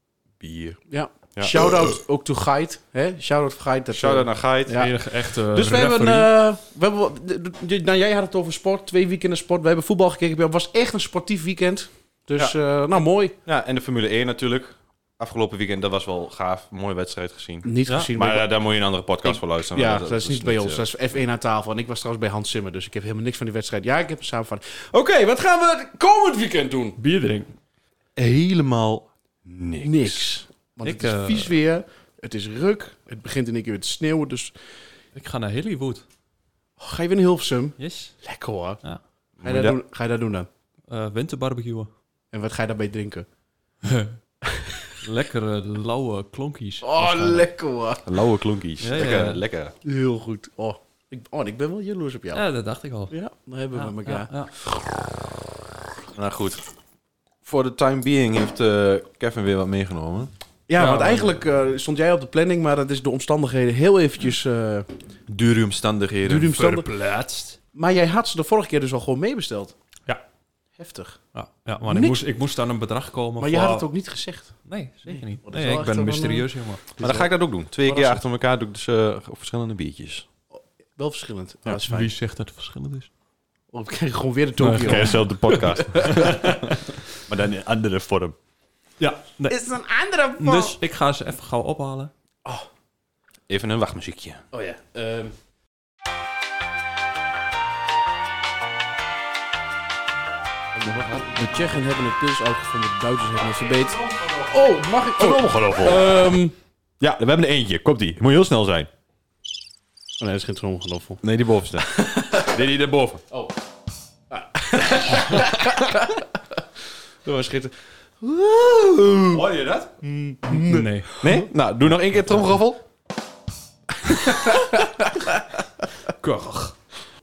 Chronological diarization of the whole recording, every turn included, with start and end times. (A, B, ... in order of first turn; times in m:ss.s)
0:00.4-0:00.8 A
0:00.9-0:13.3 B
0:01.3-0:01.7 A
0:03.9-0:04.8 A
0:04.7-0:06.3 C
0:13.4-0:20.8 A
0:17.6-0:18.5 B
0:19.2-0:27.0 B
0:27.0-0:27.5 C
0:28.2-0:30.3 A
0:29.8-0:34.5 B
0:30.8-0:31.6 C
0:35.1-0:36.0 C
0:36.8-0:38.8 B
0:37.8-0:38.2 C
0:39.4-0:39.8 A
0:39.4-0:40.5 B
0:40.9-0:41.9 C
0:42.3-0:43.2 B
0:43.8-0:44.2 C
0:44.5-0:44.8 B
0:45.0-0:47.5 C
0:46.8-0:48.1 B
0:48.0-0:49.7 A
0:48.8-0:49.4 C
0:49.8-0:52.4 B
0:52.3-0:53.1 C
0:53.1-0:54.8 B
0:53.7-0:54.5 C
0:56.1-0:56.6 A
0:57.4-1:00.3 A
1:00.7-1:04.9 B
1:00.8-1:01.4 C
1:05.3-1:06.5 A
1:06.2-1:06.9 B
1:06.5-1:07.6 C
1:07.7-1:09.7 B
1:10.8-1:11.2 B
1:11.3-1:13.9 C
1:11.8-1:12.2 B
1:13.4-1:18.2 B
1:14.6-1:16.9 C
1:17.0-1:20.2 A
1:20.5-1:22.1 B
1:21.6-1:23.1 C
1:23.7-1:26.2 B
1:24.6-1:27.0 C
1:24.6-1:26.8 A
1:27.3-1:28.4 A
1:29.0-1:29.6 C
1:29.5-1:30.8 B
1:30.4-1:32.1 C
1:33.5-1:34.4 A
1:34.5-1:35.3 B
1:40.7-1:46.5 B
1:43.8-1:44.5 C
1:45.1-1:46.2 A
1:47.0-1:48.9 A
1:50.2-1:51.2 B
1:51.2-1:53.2 A
1:51.8-1:52.5 B
1:54.3-1:56.6 B
1:57.2-1:59.4 B
1:59.3-2:00.0 A
2:00.0-2:01.4 B
2:00.5-2:01.1 C
2:01.2-2:02.8 A
2:04.1-2:05.3 B
2:06.1-2:06.8 C